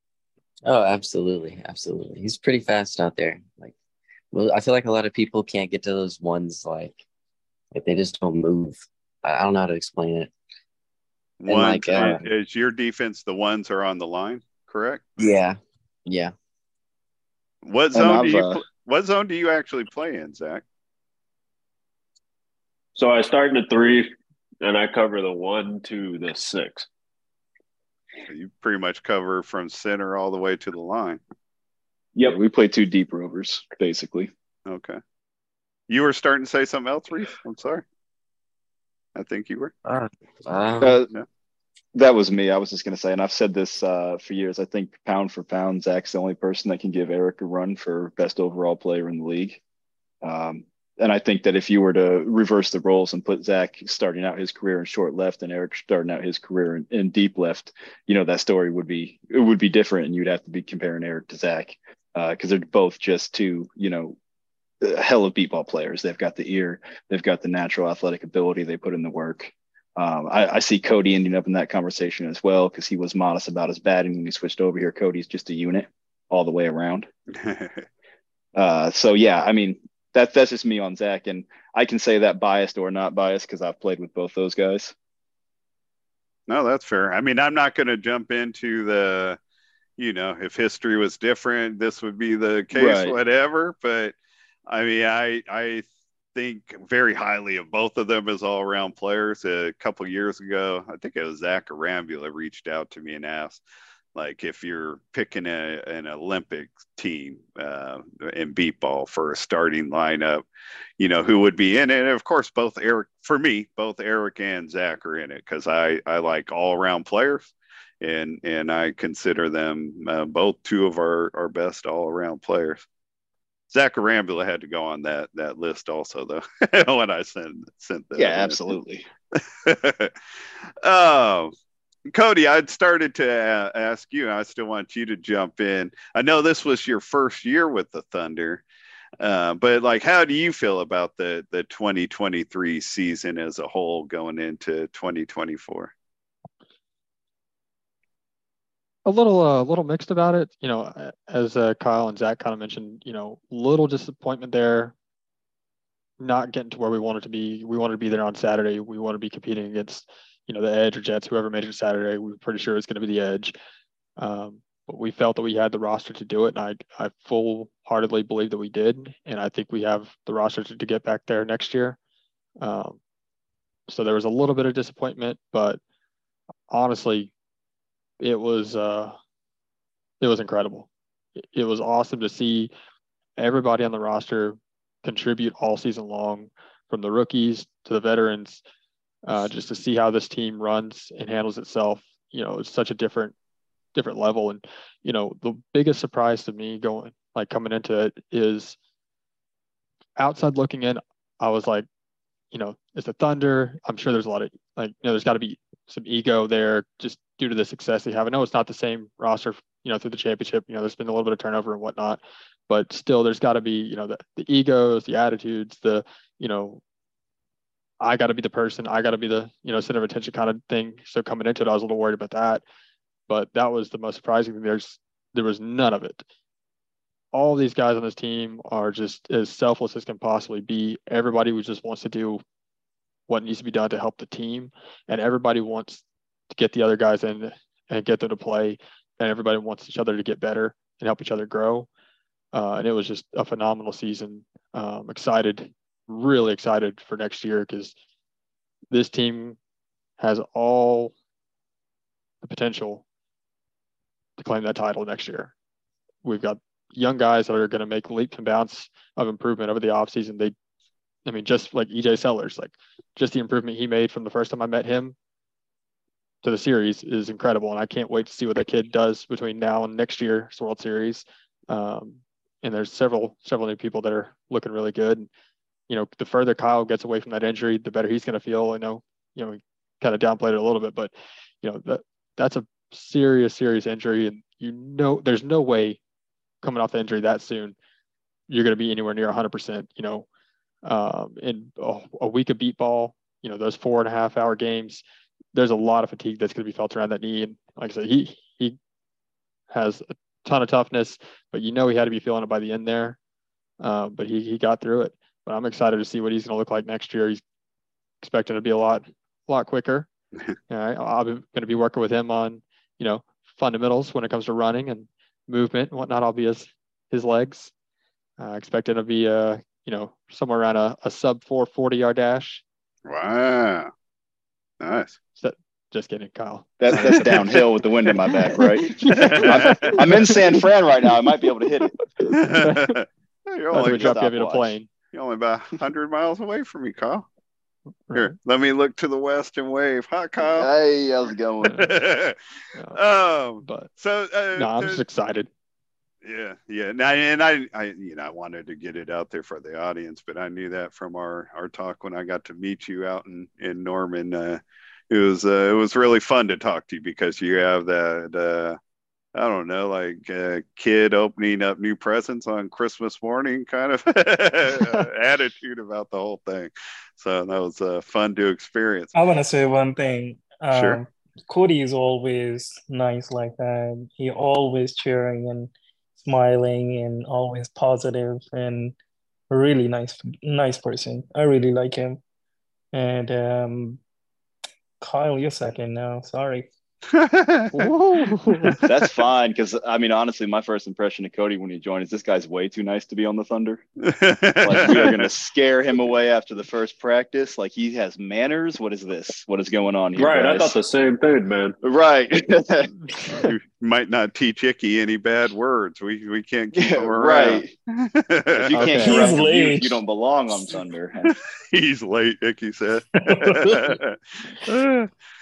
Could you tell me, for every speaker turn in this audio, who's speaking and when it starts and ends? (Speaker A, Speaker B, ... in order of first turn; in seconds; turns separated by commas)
Speaker A: 0.7-3.7, Speaker A: 4.3-7.0, Speaker A: 7.7-10.3, Speaker B: 11.4-15.0, Speaker A: 11.5-12.3, Speaker A: 15.2-16.3, Speaker B: 17.6-20.6, Speaker C: 17.9-18.6, Speaker D: 22.9-24.1, Speaker D: 24.6-26.9, Speaker B: 28.3-31.2, Speaker C: 32.1-34.3, Speaker B: 34.7-35.0, Speaker B: 35.9-37.8, Speaker B: 39.1-39.7, Speaker A: 39.8-41.0, Speaker C: 40.8-41.1, Speaker C: 41.9-49.6, Speaker C: 50.2-64.2, Speaker C: 64.8-77.1, Speaker B: 77.3-77.9, Speaker C: 78.5-84.9, Speaker B: 86.5-89.4, Speaker B: 90.0-94.2, Speaker C: 92.7-93.2, Speaker B: 94.7-103.6, Speaker B: 104.1-110.4, Speaker B: 111.0-122.8, Speaker B: 123.7-128.6, Speaker C: 128.1-129.1, Speaker B: 129.4-130.1, Speaker B: 130.8-131.5, Speaker B: 132.1-138.6, Speaker B: 139.2-145.9, Speaker E: 149.0-154.9, Speaker E: 156.2-163.5, Speaker E: 164.2-172.0, Speaker E: 172.6-173.0, Speaker E: 173.9-175.8, Speaker E: 176.7-177.3, Speaker E: 178.2-179.2, Speaker E: 180.2-180.9, Speaker E: 181.4-182.7, Speaker E: 183.4-188.6, Speaker E: 189.2-193.3, Speaker E: 193.9-198.8, Speaker E: 200.2-201.9, Speaker E: 202.5-216.8, Speaker E: 218.0-222.6, Speaker E: 223.3-226.2, Speaker E: 227.3-232.4, Speaker E: 233.3-241.9, Speaker E: 242.5-247.9, Speaker E: 248.9-249.6, Speaker E: 250.2-251.1, Speaker E: 252.4-253.0, Speaker E: 254.4-255.5, Speaker E: 256.2-260.5, Speaker E: 261.2-265.1, Speaker E: 266.4-275.3, Speaker E: 275.9-286.0, Speaker E: 286.6-287.8, Speaker E: 288.5-290.2, Speaker E: 290.8-298.8, Speaker E: 299.7-303.2, Speaker E: 303.8-307.4, Speaker E: 308.2-310.1, Speaker E: 310.7-317.7, Speaker E: 318.4-322.6, Speaker B: 323.1-323.9, Speaker B: 324.8-325.2, Speaker E: 325.4-330.4, Speaker C: 326.8-331.9, Speaker B: 329.1-330.0, Speaker E: 331.5-332.9, Speaker B: 332.3-337.3, Speaker E: 333.7-334.9, Speaker C: 333.8-334.4, Speaker E: 338.1-338.3, Speaker B: 338.1-340.7, Speaker C: 340.6-341.9, Speaker B: 341.6-342.4, Speaker B: 342.9-345.0, Speaker E: 343.6-343.9, Speaker E: 344.5-345.5, Speaker B: 346.2-358.8, Speaker B: 359.3-369.1, Speaker F: 369.1-378.9, Speaker B: 370.7-371.0, Speaker F: 379.5-382.2, Speaker F: 382.9-384.0, Speaker F: 385.0-386.7, Speaker B: 387.1-387.9, Speaker E: 387.7-388.7, Speaker C: 388.8-393.8, Speaker B: 394.0-395.2, Speaker C: 394.6-400.8, Speaker D: 400.1-401.8, Speaker C: 401.8-402.9, Speaker B: 403.3-408.8, Speaker C: 406.7-407.7, Speaker C: 408.5-411.3, Speaker E: 408.7-409.3, Speaker F: 409.0-410.0, Speaker B: 411.3-415.1, Speaker F: 413.2-413.9